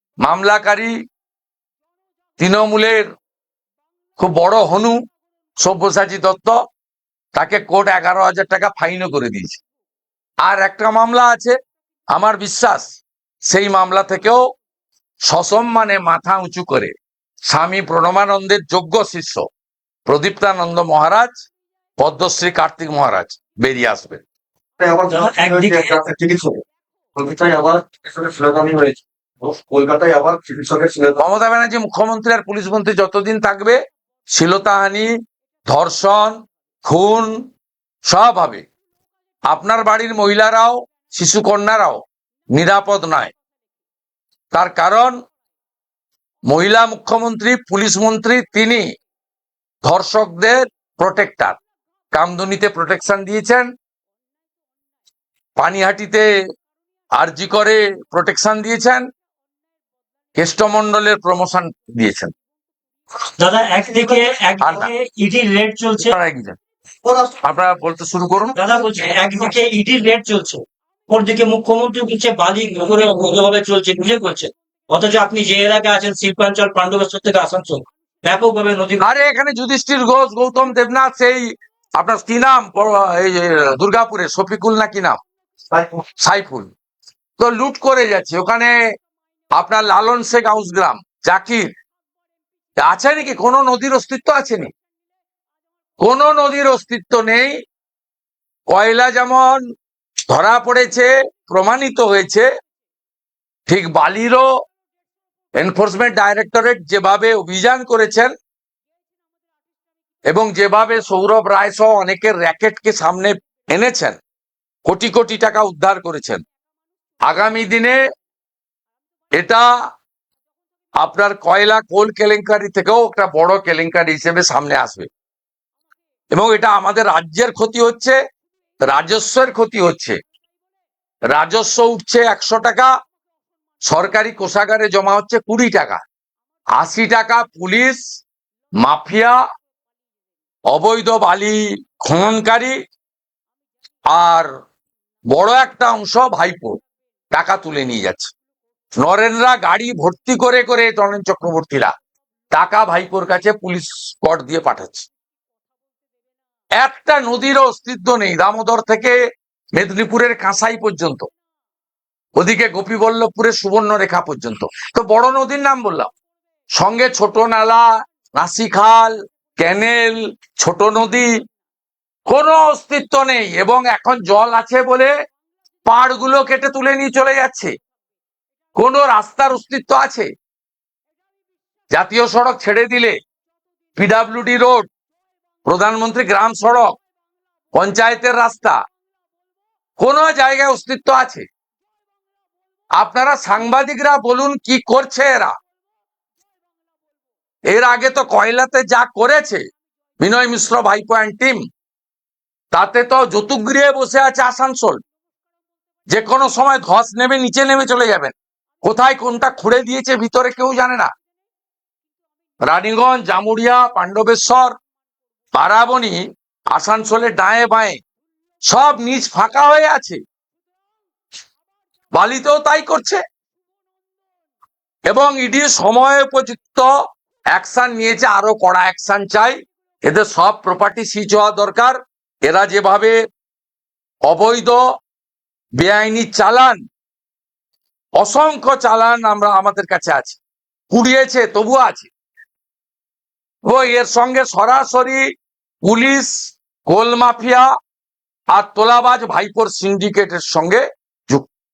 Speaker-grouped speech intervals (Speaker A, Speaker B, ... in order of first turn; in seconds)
Speaker A: 0.2-0.9, 2.4-3.1, 4.2-5.0, 5.6-6.6, 7.3-9.6, 10.4-11.6, 12.1-14.4, 15.3-16.9, 17.5-19.4, 20.1-21.4, 22.0-24.2, 31.2-33.8, 34.3-35.1, 35.7-37.4, 38.1-38.6, 39.5-42.0, 42.5-43.3, 44.5-45.2, 46.5-48.8, 49.8-51.6, 52.1-53.7, 55.6-56.2, 57.2-59.0, 60.4-62.3, 64.6-64.9, 66.1-66.6, 67.4-68.6, 79.0-85.2, 86.2-86.7, 87.4-88.7, 89.6-91.7, 92.8-94.7, 96.0-97.6, 98.7-99.6, 100.3-102.5, 103.7-104.5, 105.6-108.3, 110.3-114.2, 114.9-116.4, 117.2-118.0, 119.3-119.7, 121.0-125.1, 126.3-128.2, 128.9-130.2, 131.3-132.9, 133.8-136.0, 136.8-138.0, 138.8-139.4, 140.7-142.8, 144.1-144.5, 145.3-146.8, 147.3-148.3, 149.0-151.9, 152.5-155.1, 156.8-159.2, 159.7-161.3, 162.4-166.1, 166.8-167.8, 168.4-171.3, 172.3-175.1, 175.9-177.7, 178.8-180.3, 181.9-183.2, 184.0-184.9, 185.7-186.9, 187.7-188.8, 190.0-191.4, 193.0-195.5, 197.7-199.6, 200.2-201.6, 202.7-205.0, 206.1-211.1, 212.7-214.7, 215.5-218.0, 218.7-220.2, 222.1-223.2, 225.1-226.9, 227.5-233.2, 234.3-234.8, 235.8-236.8, 238.2-240.4, 240.9-242.1, 243.7-245.2, 245.8-247.7, 248.5-251.5
Speaker B: 24.8-26.6, 27.1-31.2, 67.0-67.4, 85.7-86.0
Speaker C: 25.1-26.0, 63.4-66.1, 68.5-79.0